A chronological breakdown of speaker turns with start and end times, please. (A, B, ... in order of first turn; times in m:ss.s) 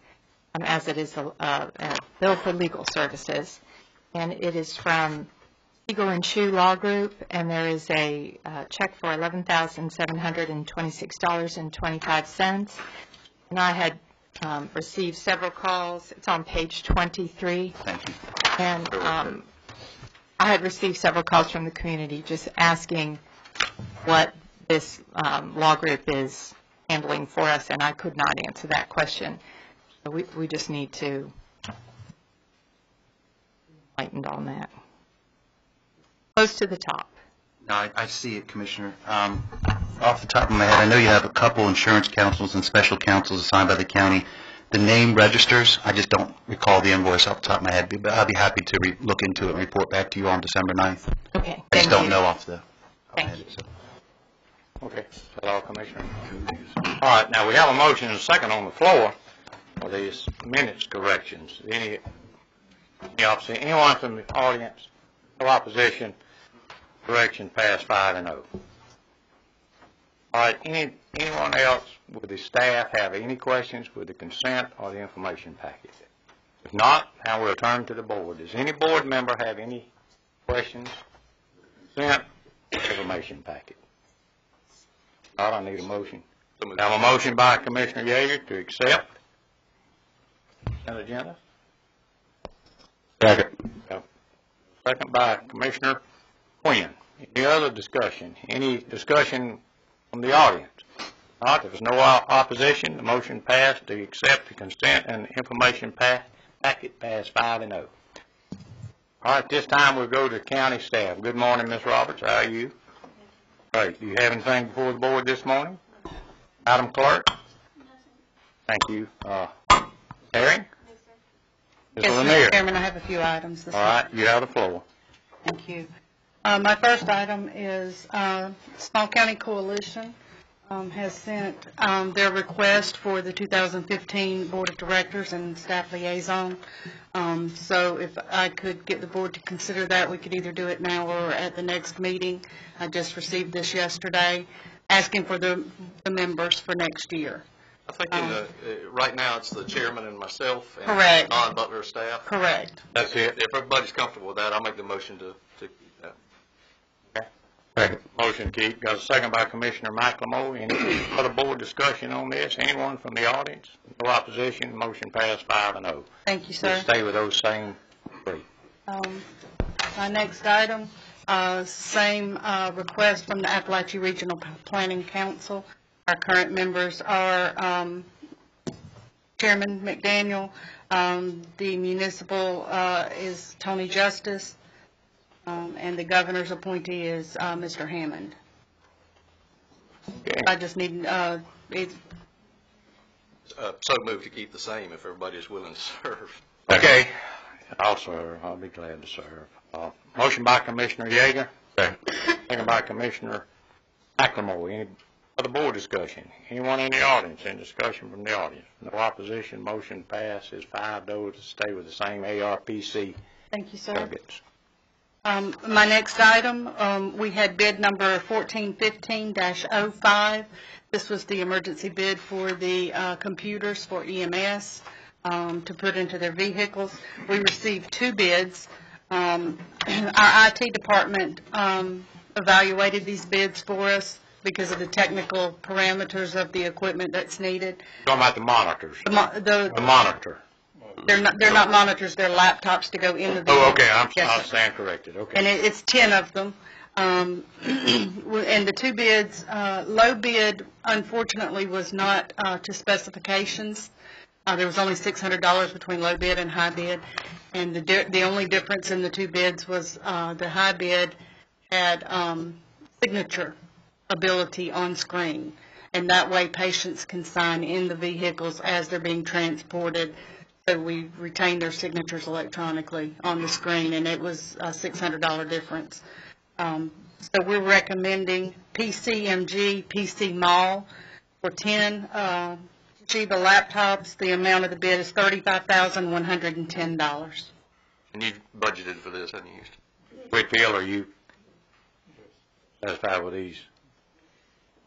0:00.6-0:03.6 A
0:04.1-0:05.3 A
0:05.9-0:12.8 A
0:13.5-0:17.8 A
0:17.9-0:18.2 B
0:18.5-0:19.5 A
0:20.4-0:23.2 A
0:24.0-0:29.4 A
0:30.0-0:31.3 A
0:34.0-0:34.7 A
0:36.3-0:37.1 A
0:37.6-0:51.1 B
0:51.3-0:52.2 A
0:51.7-0:52.6 B
0:53.1-0:53.6 B
0:53.2-0:53.4 A
0:54.8-0:56.2 C
0:57.0-0:59.1 C
0:59.8-1:02.0 C
1:03.1-1:06.2 C
1:07.1-1:08.5 C
1:10.3-1:16.0 C
1:16.6-1:19.9 C
1:20.5-1:21.0 C
1:22.0-1:23.8 C
1:25.4-1:29.1 C
1:30.8-1:31.4 C
1:34.8-1:36.0 C
1:36.6-1:40.8 C
1:41.4-1:47.9 C
1:49.2-1:52.7 C
1:53.7-1:55.8 C
1:56.6-1:57.3 C
1:58.7-2:00.7 C
2:02.0-2:04.0 D
2:02.0-2:02.6 C
2:03.7-2:04.8 C
2:05.4-2:05.9 D
2:06.4-2:10.2 D
2:10.7-2:16.6 D
2:17.1-2:27.4 D
2:27.9-2:32.3 E
2:30.8-2:31.4 D
2:32.2-2:32.8 D
2:33.0-2:33.3 C
2:33.0-2:36.2 E
2:37.8-2:46.1 C
2:46.3-2:46.9 D
2:46.6-2:48.4 C
2:48.9-2:49.2 D
2:50.0-2:58.1 D
2:59.4-3:04.6 D
3:05.5-3:08.4 D
3:10.2-3:10.5 C
3:10.4-3:12.0 D
3:13.5-3:16.3 E
3:16.7-3:17.2 C
3:17.7-3:21.5 C
3:22.3-3:23.5 C
3:24.2-3:33.2 C
3:33.5-3:34.1 D
3:33.9-3:34.4 C
3:35.2-3:57.8 D
3:58.0-3:59.0 C
3:59.0-4:00.0 D
3:59.7-4:00.4 C
4:01.0-4:04.5 D
4:03.5-4:05.4 C
4:05.3-4:13.9 D
4:14.5-4:17.0 D
4:17.5-4:21.2 D
4:21.7-4:23.6 D
4:24.1-4:30.1 D
4:30.7-4:36.0 D
4:36.6-4:40.9 D
4:41.4-4:47.5 D
4:48.1-4:49.7 E
4:50.3-4:51.1 C
4:52.8-4:53.6 C